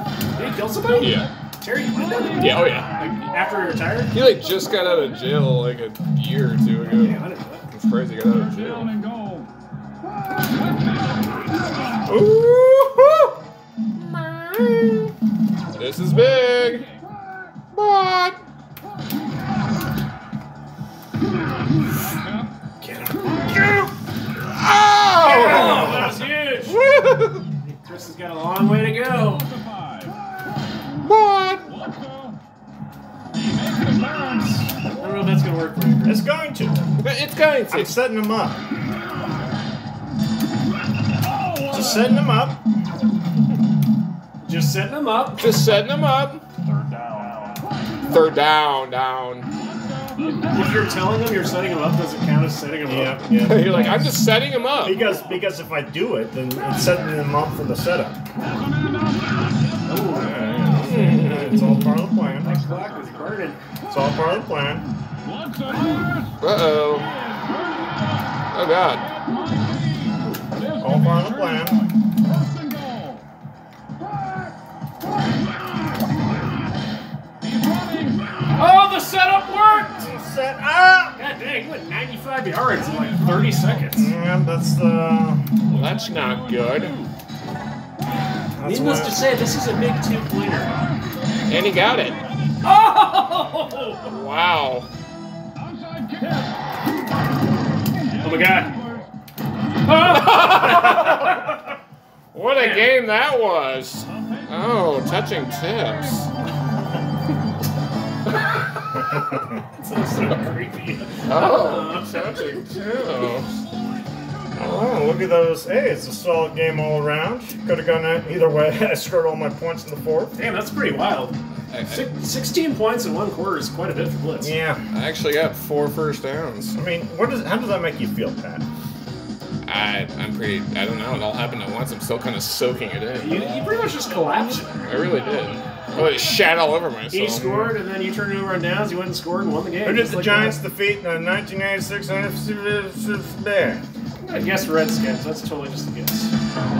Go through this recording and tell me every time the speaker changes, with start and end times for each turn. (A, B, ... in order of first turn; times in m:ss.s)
0:00.3-0:04.1 A
0:00.9-0:01.3 B
0:02.3-0:02.9 B
0:04.1-0:08.9 B
0:06.8-0:07.7 A
0:08.9-0:09.5 C
0:12.1-0:13.3 B
0:13.9-0:15.1 B
0:15.8-0:16.9 B
0:17.7-0:18.4 B
0:22.2-0:22.5 C
0:22.8-0:23.9 D
0:24.5-0:27.4 B
0:25.2-0:26.8 A
0:25.8-0:26.2 D
0:27.5-0:29.5 A
0:29.6-0:30.1 C
0:31.0-0:31.7 B
0:31.7-0:32.4 C
0:33.3-0:34.5 C
0:35.0-0:36.2 A
0:36.0-0:36.8 D
0:37.0-0:38.0 B
0:37.7-0:38.6 D
0:41.3-0:41.7 C
0:41.7-0:42.6 D
0:44.4-0:45.5 A
0:45.4-0:46.4 B
0:48.0-0:49.5 B
0:50.2-0:53.2 A
0:52.8-0:54.2 D
0:53.4-0:55.1 B
0:54.8-0:58.2 D
0:58.6-0:59.2 C
0:59.8-1:00.8 A
1:00.1-1:01.9 B
1:00.7-1:02.6 D
1:02.4-1:03.6 A
1:03.9-1:04.9 D
1:05.3-1:06.1 C
1:06.4-1:07.1 B
1:07.4-1:07.9 C
1:08.5-1:09.1 B
1:09.5-1:10.1 C
1:10.7-1:11.0 C
1:10.8-1:11.9 D
1:12.6-1:13.2 C
1:17.5-1:18.2 C
1:18.5-1:20.0 A
1:20.0-1:21.2 D
1:21.2-1:24.1 A
1:23.9-1:25.5 D
1:25.7-1:27.0 B
1:26.1-1:27.0 C
1:28.6-1:29.3 D
1:28.6-1:30.8 A
1:31.5-1:32.2 B
1:32.6-1:34.0 A
1:34.0-1:34.9 B
1:35.9-1:36.4 C
1:38.2-1:38.8 A
1:39.8-1:41.5 A
1:40.0-1:41.4 B
1:42.3-1:46.3 B
1:42.5-1:42.9 A
1:49.7-1:52.5 A
1:51.2-1:53.5 B
1:54.6-2:00.4 D
2:00.4-2:04.5 A
2:01.7-2:02.0 B
2:04.4-2:04.8 D
2:04.9-2:06.8 B
2:06.7-2:08.6 D
2:09.6-2:13.5 B
2:13.2-2:14.9 A
2:14.8-2:17.8 B
2:17.1-2:20.6 A
2:19.8-2:23.8 D
2:24.2-2:26.3 A